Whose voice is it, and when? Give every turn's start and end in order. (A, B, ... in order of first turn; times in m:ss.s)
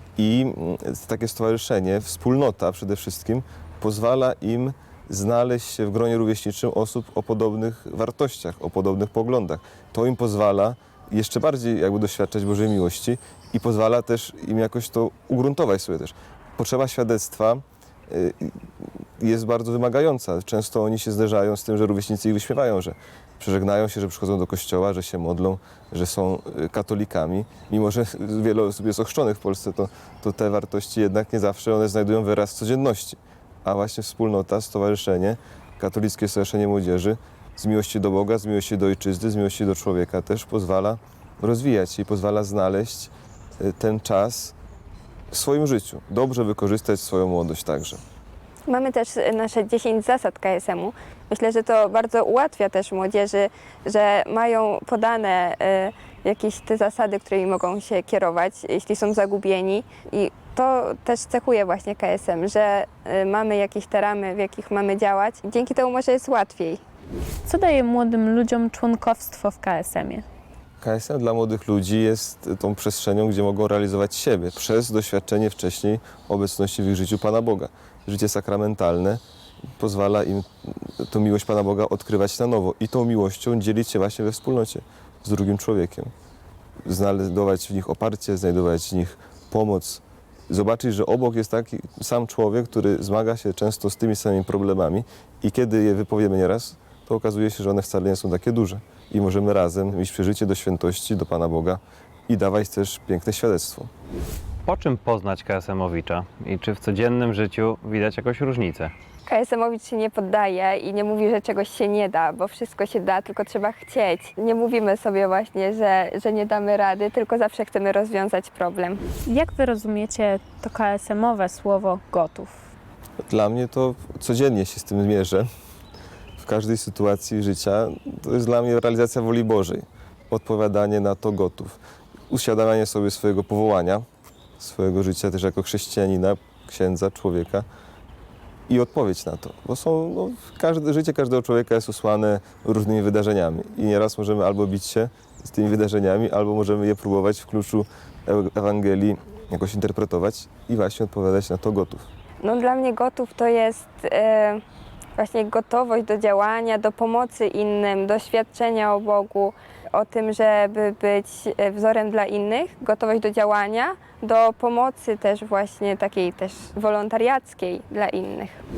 0:00.2-0:18.6 A
0:19.2-0:44.5 A
0:45.3-0:48.0 A
0:48.7-1:06.8 B
1:07.4-1:10.2 C
1:10.8-1:19.2 A
1:19.8-1:26.1 A
1:26.8-1:43.9 A
1:44.6-1:48.9 D
1:49.3-1:59.0 B
1:59.2-2:02.7 C
2:03.2-2:05.4 A
2:06.4-2:11.8 A
2:12.3-2:14.0 A
2:14.6-2:17.6 A
2:18.7-2:32.0 A
2:32.4-2:34.6 B
2:35.2-2:48.6 B